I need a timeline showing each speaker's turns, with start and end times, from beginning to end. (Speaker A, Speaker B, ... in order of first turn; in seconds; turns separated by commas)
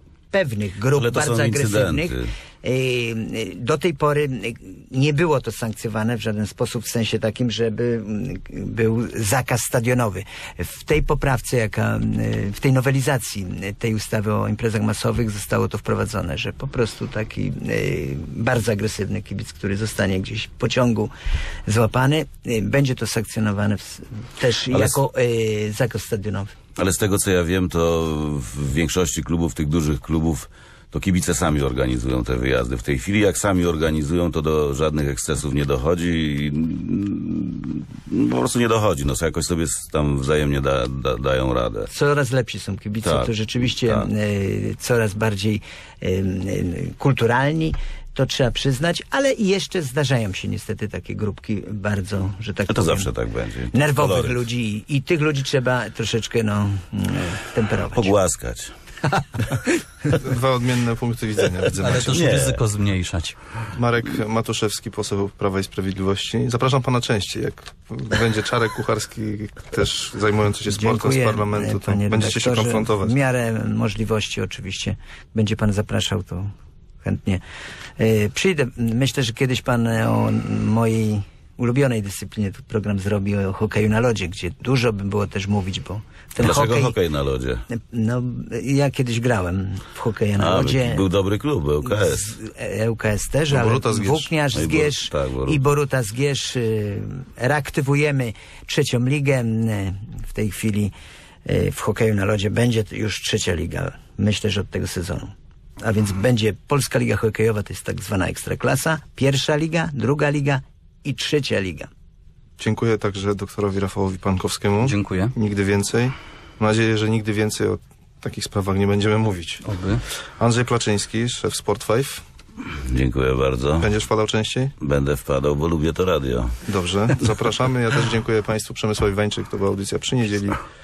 Speaker A: 0.3-21.1, Speaker B: 0.9-2.3, Speaker A: 21.7-26.5, Speaker B: 24.7-25.0, Speaker B: 26.8-41.9, Speaker A: 41.9-53.1, Speaker B: 43.0-44.1, Speaker B: 52.7-54.4, Speaker A: 53.7-58.1, Speaker B: 57.9-58.7, Speaker C: 60.1-62.2, Speaker D: 61.8-63.4, Speaker B: 62.0-62.6, Speaker C: 63.7-73.2, Speaker A: 70.7-76.5, Speaker A: 77.0-77.4, Speaker A: 78.0-86.9, Speaker B: 86.4-87.6, Speaker A: 87.7-91.0, Speaker B: 90.3-92.3, Speaker A: 91.8-100.9, Speaker C: 93.5-94.3, Speaker B: 94.5-95.6, Speaker A: 101.5-111.9, Speaker C: 112.6-119.6, Speaker D: 114.8-115.3, Speaker D: 119.6-120.0, Speaker C: 120.4-122.2, Speaker B: 122.8-123.9, Speaker C: 123.8-124.7, Speaker B: 124.8-126.6, Speaker C: 126.7-130.6